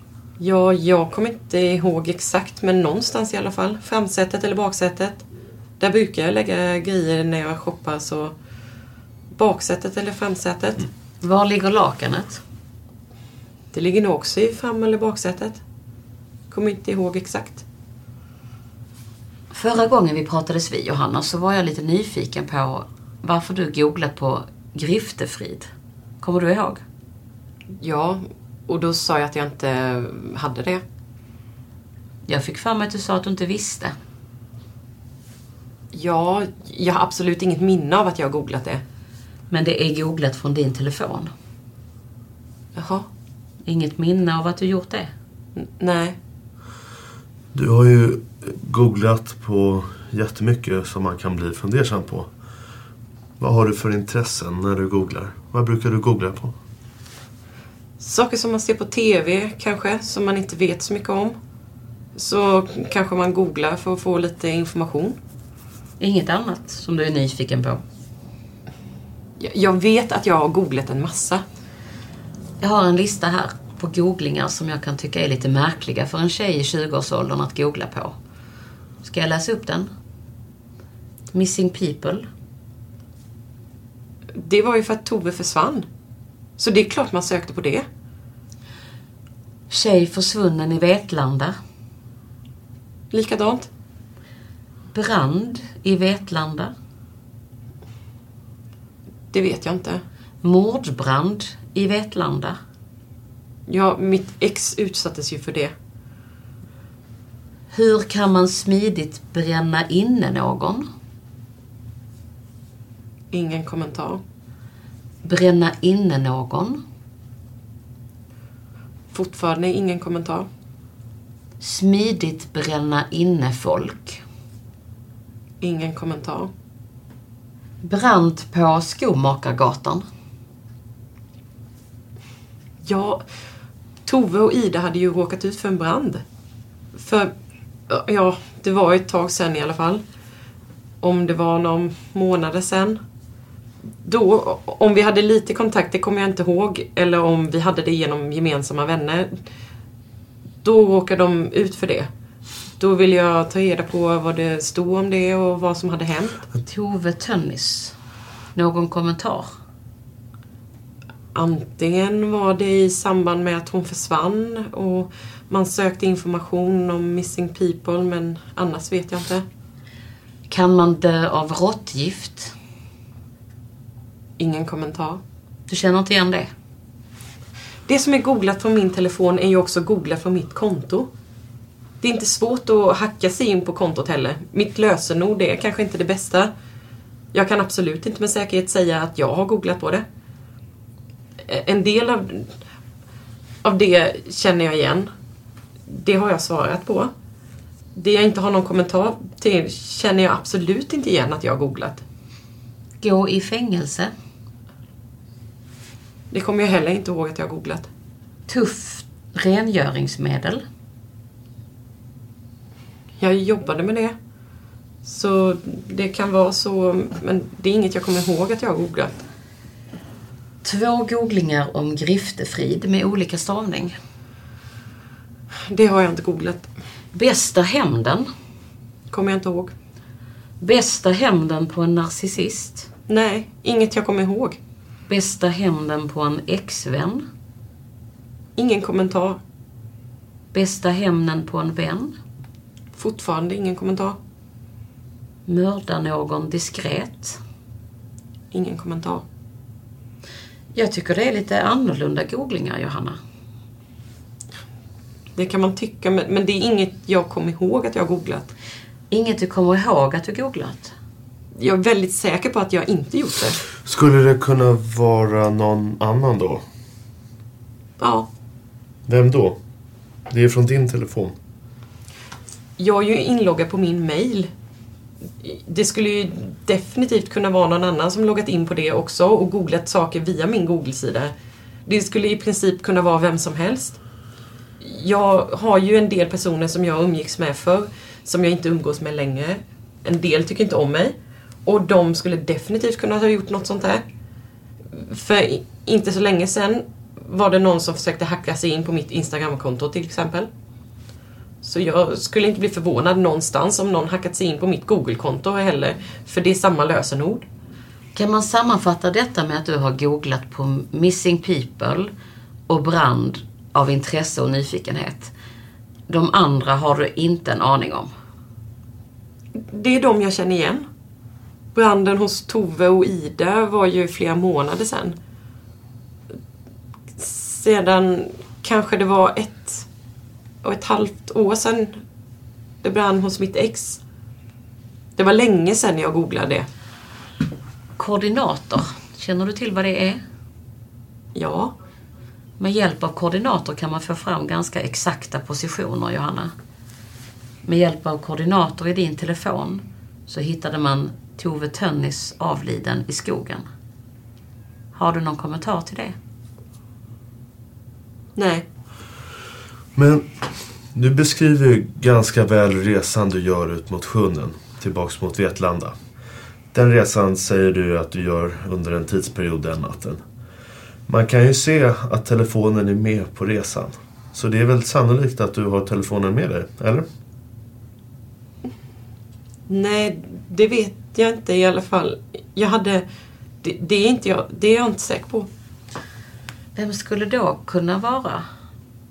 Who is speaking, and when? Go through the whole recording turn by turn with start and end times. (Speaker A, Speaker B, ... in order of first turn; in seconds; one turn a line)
Speaker A: 0.4-5.2
Speaker A: 5.8-8.3
Speaker A: 9.3-10.8
Speaker B: 11.2-12.4
Speaker A: 13.7-15.6
Speaker A: 16.5-17.6
Speaker B: 19.5-25.7
Speaker B: 26.2-26.8
Speaker A: 27.8-30.8
Speaker B: 32.3-33.9
Speaker A: 35.9-38.8
Speaker B: 39.5-41.3
Speaker A: 42.8-43.1
Speaker B: 43.6-45.1
Speaker A: 45.5-46.2
Speaker C: 47.5-52.3
Speaker C: 53.4-56.5
Speaker A: 58.0-61.4
Speaker A: 62.1-65.2
Speaker B: 66.0-67.8
Speaker A: 69.4-71.4
Speaker B: 72.6-78.1
Speaker B: 79.0-79.9
Speaker B: 81.3-82.3
Speaker A: 84.3-85.9
Speaker A: 86.6-87.9
Speaker B: 89.7-91.6
Speaker A: 93.1-93.7
Speaker B: 94.9-96.7
Speaker A: 99.3-100.0
Speaker B: 100.4-102.6
Speaker A: 103.7-105.7
Speaker B: 107.7-110.9
Speaker A: 113.3-114.2
Speaker B: 115.2-116.8
Speaker A: 119.1-120.5
Speaker B: 121.6-124.2
Speaker A: 125.6-126.5
Speaker B: 127.8-130.0
Speaker A: 132.8-133.2
Speaker A: 134.0-136.2
Speaker A: 136.9-137.3
Speaker A: 137.9-140.0
Speaker A: 141.0-143.0
Speaker A: 144.0-149.4
Speaker A: 150.6-152.1
Speaker A: 152.8-156.4
Speaker B: 156.6-157.9
Speaker B: 158.5-159.5
Speaker A: 161.3-169.4
Speaker B: 170.5-172.5
Speaker A: 174.4-175.2
Speaker B: 175.7-176.5
Speaker A: 177.9-181.1
Speaker A: 182.0-186.5
Speaker A: 187.3-190.0
Speaker A: 191.4-192.5
Speaker A: 193.6-195.1
Speaker A: 195.9-197.1
Speaker A: 197.9-202.0
Speaker B: 203.0-204.1
Speaker A: 206.3-207.9
Speaker B: 208.5-210.6
Speaker A: 213.2-214.2
Speaker A: 215.0-219.1
Speaker B: 220.6-223.9
Speaker A: 225.7-226.7
Speaker B: 227.1-228.3
Speaker A: 229.1-229.7
Speaker B: 230.6-232.9
Speaker A: 233.1-234.6
Speaker B: 235.1-237.2
Speaker A: 238.6-239.4
Speaker B: 240.5-242.2
Speaker A: 243.0-244.2
Speaker B: 245.5-247.4
Speaker A: 248.5-249.2
Speaker B: 250.7-253.2
Speaker A: 255.3-258.5
Speaker B: 259.1-260.9
Speaker A: 261.6-263.6
Speaker C: 263.9-266.6
Speaker A: 268.0-268.3
Speaker C: 269.1-269.6
Speaker C: 270.3-271.4
Speaker A: 272.8-274.5
Speaker A: 275.4-281.3
Speaker A: 281.9-284.0
Speaker A: 284.8-294.0
Speaker A: 294.9-300.5
Speaker A: 301.6-307.5
Speaker B: 308.1-312.1
Speaker B: 312.7-315.3
Speaker B: 316.1-318.1
Speaker A: 319.6-320.9
Speaker A: 321.8-325.2
Speaker A: 327.2-329.9
Speaker A: 330.6-332.0
Speaker A: 332.8-334.0
Speaker A: 335.2-336.7
Speaker B: 338.0-340.2
Speaker A: 341.4-341.8
Speaker B: 342.6-346.5
Speaker B: 347.6-353.6
Speaker B: 354.9-356.1
Speaker A: 358.4-358.6
Speaker C: 359.9-366.0
Speaker C: 366.7-370.2
Speaker C: 371.1-377.1
Speaker A: 379.7-383.0
Speaker A: 383.6-385.5
Speaker B: 386.8-388.5